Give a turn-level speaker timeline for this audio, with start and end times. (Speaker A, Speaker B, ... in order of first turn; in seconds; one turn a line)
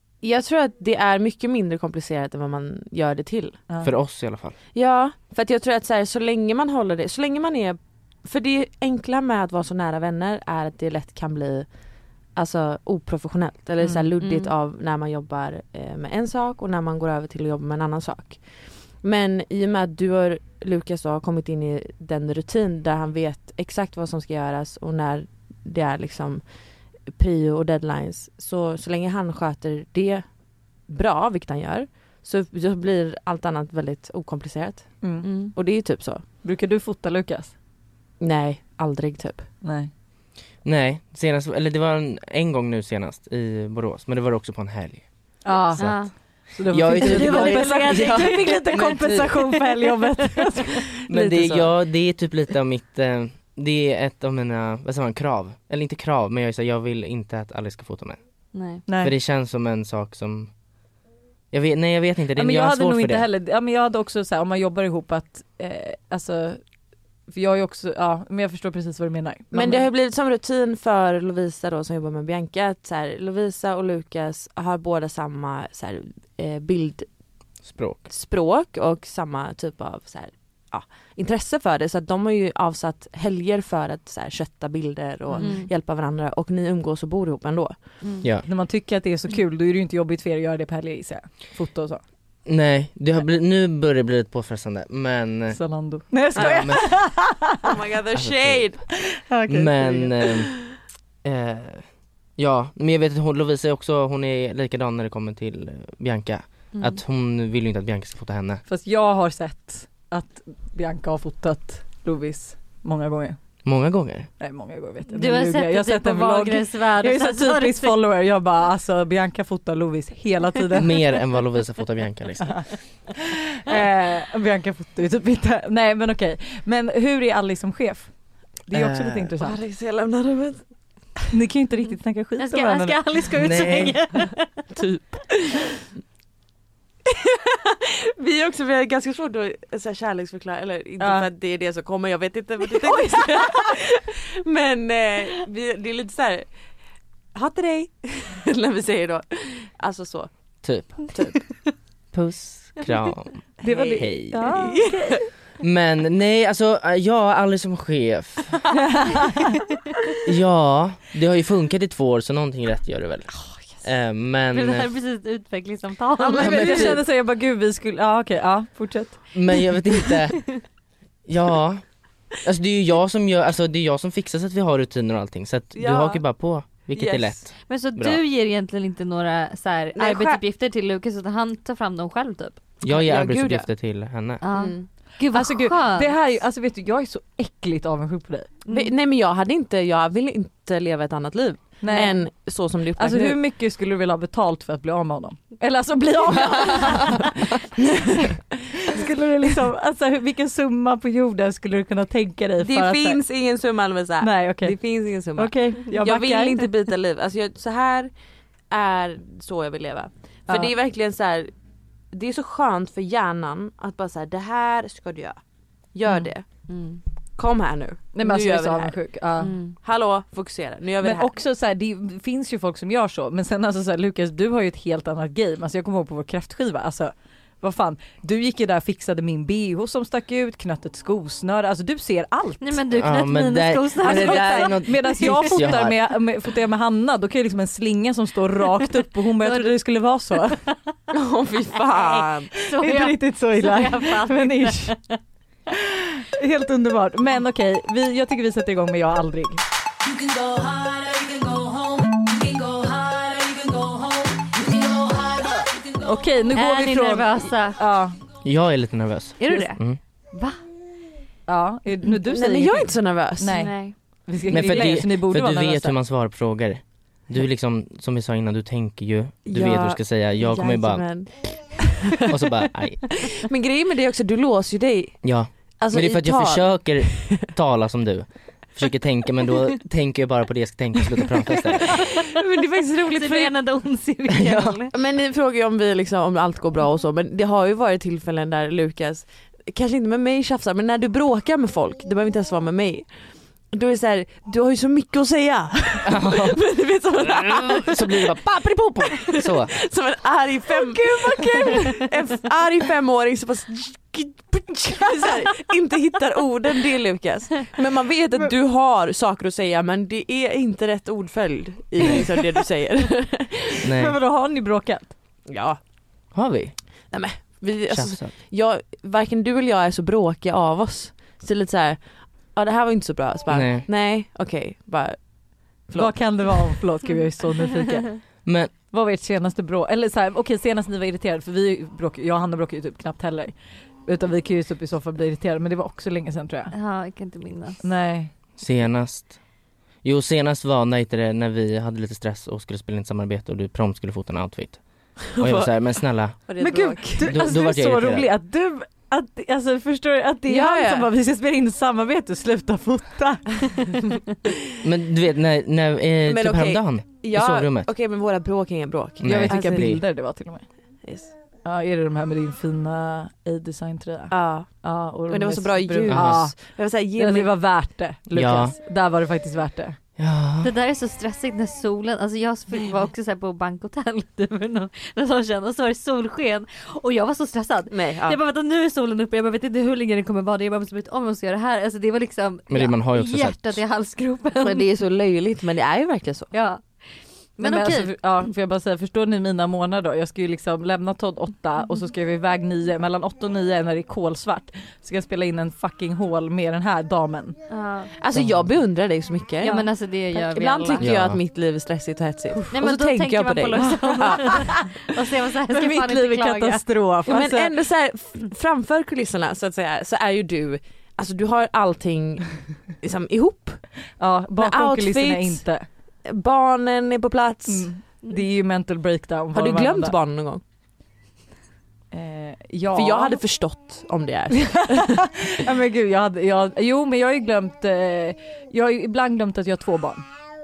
Speaker A: 0.2-3.6
Speaker B: 3.8-4.5
Speaker A: 4.7-11.7
Speaker A: 12.3-26.5
Speaker C: 13.8-14.1
Speaker D: 14.2-14.5
Speaker A: 27.0-30.3
Speaker A: 30.9-36.2
Speaker C: 35.0-35.5
Speaker D: 35.2-35.5
Speaker C: 36.4-37.5
Speaker A: 38.2-39.5
Speaker C: 39.6-39.9
Speaker B: 40.6-45.1
Speaker C: 45.4-51.7
Speaker B: 45.6-46.1
Speaker D: 45.8-46.1
Speaker B: 46.6-49.5
Speaker D: 46.8-49.9
Speaker B: 51.1-58.2
Speaker D: 58.5-58.8
Speaker C: 58.9-59.1
Speaker B: 59.0-60.5
Speaker B: 61.5-63.3
Speaker C: 62.4-66.6
Speaker C: 67.3-69.9
Speaker A: 69.5-77.1
Speaker B: 77.6-78.0
Speaker A: 78.1-88.0
Speaker D: 85.4-85.7
Speaker D: 88.0-88.3
Speaker C: 88.4-92.0
Speaker B: 92.4-95.6
Speaker C: 95.5-97.7
Speaker A: 96.3-96.9
Speaker B: 96.3-97.0
Speaker A: 97.6-98.8
Speaker B: 98.1-98.9
Speaker C: 99.1-100.2
Speaker B: 99.5-100.7
Speaker B: 101.2-108.6
Speaker D: 106.7-107.0
Speaker C: 108.7-113.4
Speaker B: 113.6-114.3
Speaker C: 114.4-121.1
Speaker D: 115.1-118.0
Speaker B: 120.8-122.7
Speaker C: 123.6-129.6
Speaker B: 128.7-129.3
Speaker A: 129.4-130.6
Speaker C: 131.3-133.2
Speaker D: 132.4-134.7
Speaker B: 133.4-134.0
Speaker A: 134.7-135.6
Speaker A: 137.1-146.5
Speaker C: 141.0-141.3
Speaker A: 147.3-150.3
Speaker B: 150.6-151.1
Speaker B: 152.1-154.5
Speaker A: 153.6-154.8
Speaker C: 153.6-155.2
Speaker B: 155.6-158.6
Speaker C: 158.9-159.4
Speaker B: 160.2-164.9
Speaker D: 164.5-166.9
Speaker A: 166.2-167.0
Speaker C: 166.3-169.4
Speaker B: 166.4-166.9
Speaker B: 169.3-170.6
Speaker B: 171.2-178.2
Speaker A: 175.7-176.2
Speaker A: 176.9-177.5
Speaker D: 177.7-182.6
Speaker A: 179.9-180.4
Speaker B: 182.8-184.4
Speaker A: 182.8-183.7
Speaker D: 184.4-186.1
Speaker A: 184.5-184.9
Speaker C: 185.3-188.6
Speaker D: 188.7-188.9
Speaker A: 188.7-193.4
Speaker C: 191.8-192.3
Speaker C: 192.9-197.9
Speaker A: 196.4-197.2
Speaker C: 198.8-203.2
Speaker A: 202.6-208.1
Speaker C: 204.2-206.7
Speaker A: 208.7-211.5
Speaker C: 210.5-210.7
Speaker A: 212.1-215.4
Speaker A: 215.9-216.7
Speaker D: 216.1-217.0
Speaker A: 217.4-219.0
Speaker C: 218.1-219.6
Speaker D: 219.4-219.8
Speaker A: 219.8-221.3
Speaker C: 221.0-232.7
Speaker D: 232.6-235.5
Speaker B: 232.9-236.0
Speaker C: 234.0-240.6
Speaker D: 239.4-239.7
Speaker A: 241.1-242.5
Speaker D: 241.9-245.2
Speaker C: 242.7-244.9
Speaker C: 245.9-249.6
Speaker E: 250.0-256.1
Speaker C: 256.0-258.2
Speaker D: 256.5-257.8
Speaker B: 258.4-260.0
Speaker D: 259.4-260.6
Speaker C: 261.5-265.9
Speaker A: 262.2-263.6
Speaker D: 263.5-263.9
Speaker B: 264.5-271.3
Speaker A: 269.4-272.4
Speaker B: 272.3-273.3
Speaker A: 273.3-277.5
Speaker B: 275.2-282.1
Speaker A: 282.3-283.5
Speaker D: 283.0-284.9
Speaker B: 284.4-284.8
Speaker A: 284.9-293.1
Speaker A: 293.7-298.4
Speaker B: 296.1-296.6
Speaker B: 297.2-299.7
Speaker A: 299.0-313.9
Speaker C: 300.7-302.1
Speaker B: 313.8-314.2
Speaker C: 313.8-315.1
Speaker A: 315.4-315.8
Speaker B: 316.3-316.8
Speaker A: 317.1-326.8
Speaker B: 317.9-318.3
Speaker B: 323.5-323.9
Speaker C: 325.9-328.3
Speaker B: 328.4-328.7
Speaker C: 328.9-336.7
Speaker D: 336.7-337.8
Speaker C: 337.8-338.3
Speaker B: 338.6-339.4
Speaker B: 340.0-346.4
Speaker A: 345.4-347.4
Speaker C: 346.6-353.7
Speaker B: 347.2-348.3
Speaker A: 350.5-351.1
Speaker B: 354.8-357.9
Speaker A: 356.2-359.9
Speaker B: 359.2-360.0
Speaker C: 359.2-360.7
Speaker A: 361.0-361.3
Speaker C: 361.6-370.0
Speaker A: 364.3-368.7
Speaker B: 366.1-366.4
Speaker B: 368.4-368.8
Speaker B: 370.2-370.7
Speaker D: 370.6-384.9
Speaker A: 377.9-378.4
Speaker B: 382.7-383.8
Speaker A: 384.6-386.5
Speaker D: 386.5-388.2
Speaker C: 387.6-397.6
Speaker D: 397.7-398.1
Speaker A: 398.1-405.0
Speaker B: 398.3-398.6
Speaker D: 399.6-401.1
Speaker B: 401.0-401.4
Speaker D: 402.7-406.9
Speaker C: 404.5-404.8
Speaker C: 405.7-407.7
Speaker A: 407.2-413.9
Speaker C: 414.2-415.9
Speaker A: 414.6-415.6
Speaker A: 416.2-417.9
Speaker C: 417.7-420.1
Speaker A: 419.5-420.6
Speaker C: 422.1-423.4
Speaker A: 422.9-425.4
Speaker C: 424.7-430.2